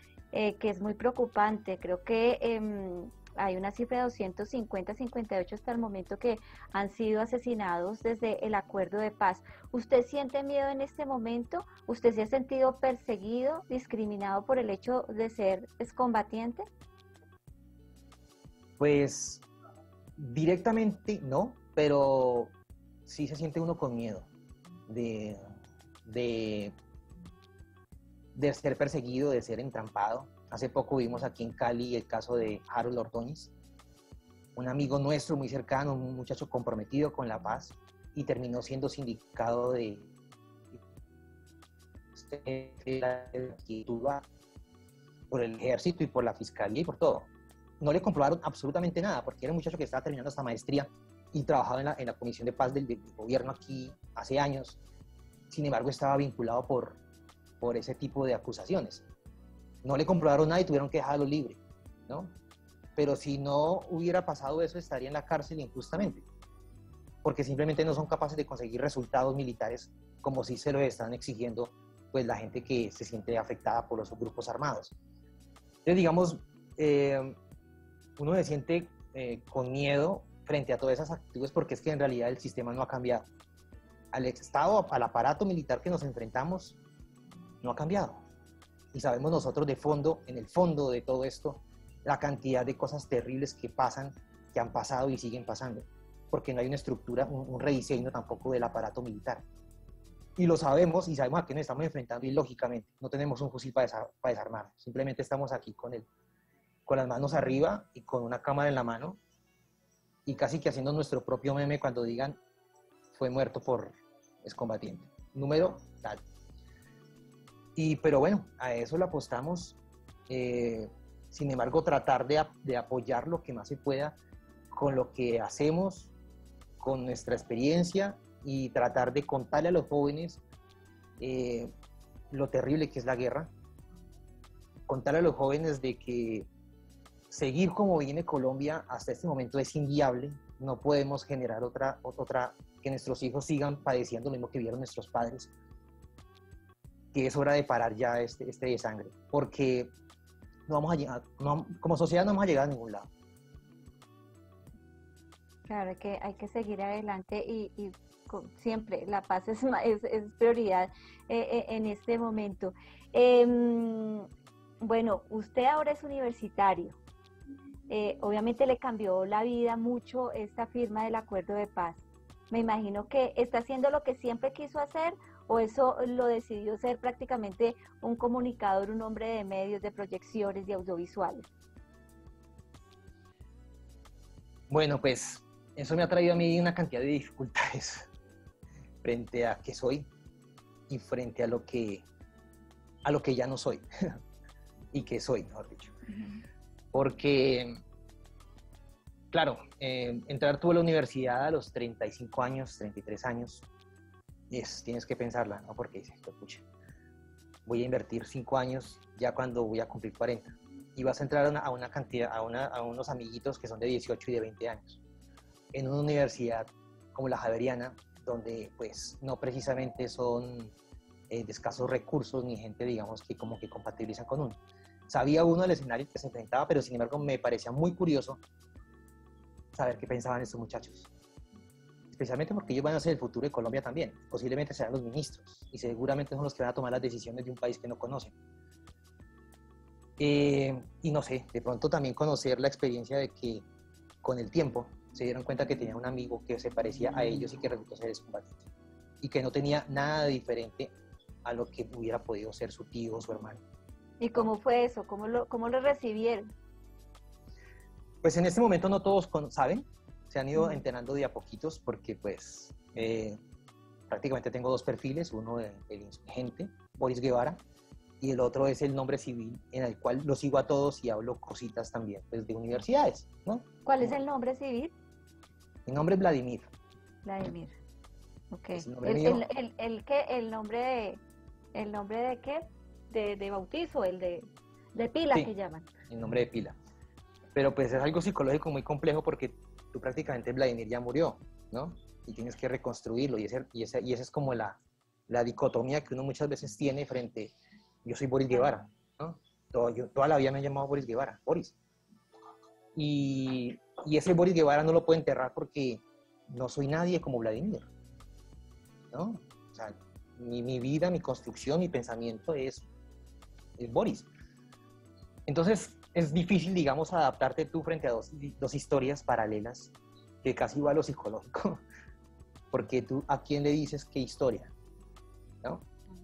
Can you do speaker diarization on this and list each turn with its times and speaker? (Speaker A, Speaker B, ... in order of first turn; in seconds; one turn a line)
Speaker A: 0.3-16.6
Speaker B: 18.8-19.4
Speaker B: 20.2-22.5
Speaker B: 23.1-24.3
Speaker B: 24.9-25.4
Speaker B: 26.1-26.7
Speaker B: 28.4-33.5
Speaker B: 34.5-40.1
Speaker B: 42.1-44.2
Speaker B: 45.3-47.3
Speaker B: 47.8-54.8
Speaker B: 55.5-57.0
Speaker B: 57.6-59.0
Speaker B: 59.8-62.3
Speaker B: 63.0-66.2
Speaker B: 67.2-74.9
Speaker B: 75.8-77.4
Speaker B: 78.2-83.2
Speaker B: 84.1-86.8
Speaker B: 87.6-88.2
Speaker B: 88.9-99.4
Speaker B: 100.4-106.0
Speaker B: 106.8-109.2
Speaker B: 110.2-112.4
Speaker B: 113.1-116.2
Speaker B: 117.8-119.8
Speaker B: 120.3-124.2
Speaker B: 124.7-126.1
Speaker B: 126.8-130.4
Speaker B: 131.2-131.7
Speaker B: 132.3-133.5
Speaker B: 134.9-136.5
Speaker B: 137.3-145.5
Speaker B: 147.1-149.9
Speaker B: 150.7-153.1
Speaker A: 155.7-164.3
Speaker A: 164.8-167.0
Speaker A: 167.9-181.4
Speaker B: 184.7-188.1
Speaker B: 189.0-190.1
Speaker B: 190.9-192.0
Speaker B: 193.0-193.8
Speaker B: 194.9-195.9
Speaker B: 196.9-197.7
Speaker B: 199.3-203.7
Speaker B: 204.5-206.6
Speaker B: 207.7-215.0
Speaker B: 215.7-220.7
Speaker B: 221.3-228.4
Speaker B: 229.7-231.1
Speaker B: 232.1-238.3
Speaker B: 240.2-243.6
Speaker B: 244.2-248.6
Speaker B: 249.2-250.9
Speaker B: 251.4-253.6
Speaker A: 254.2-256.5
Speaker B: 258.2-263.4
Speaker B: 264.1-267.6
Speaker B: 268.2-274.1
Speaker A: 273.8-274.9
Speaker B: 275.9-276.7
Speaker A: 277.2-277.7
Speaker A: 278.5-281.2
Speaker B: 278.7-279.4
Speaker A: 281.7-285.9
Speaker B: 286.1-286.8
Speaker B: 287.5-297.5
Speaker B: 298.0-301.8
Speaker B: 302.9-307.9
Speaker B: 309.1-312.9
Speaker B: 313.8-314.3
Speaker B: 315.5-319.9
Speaker B: 320.4-321.8
Speaker B: 322.7-324.7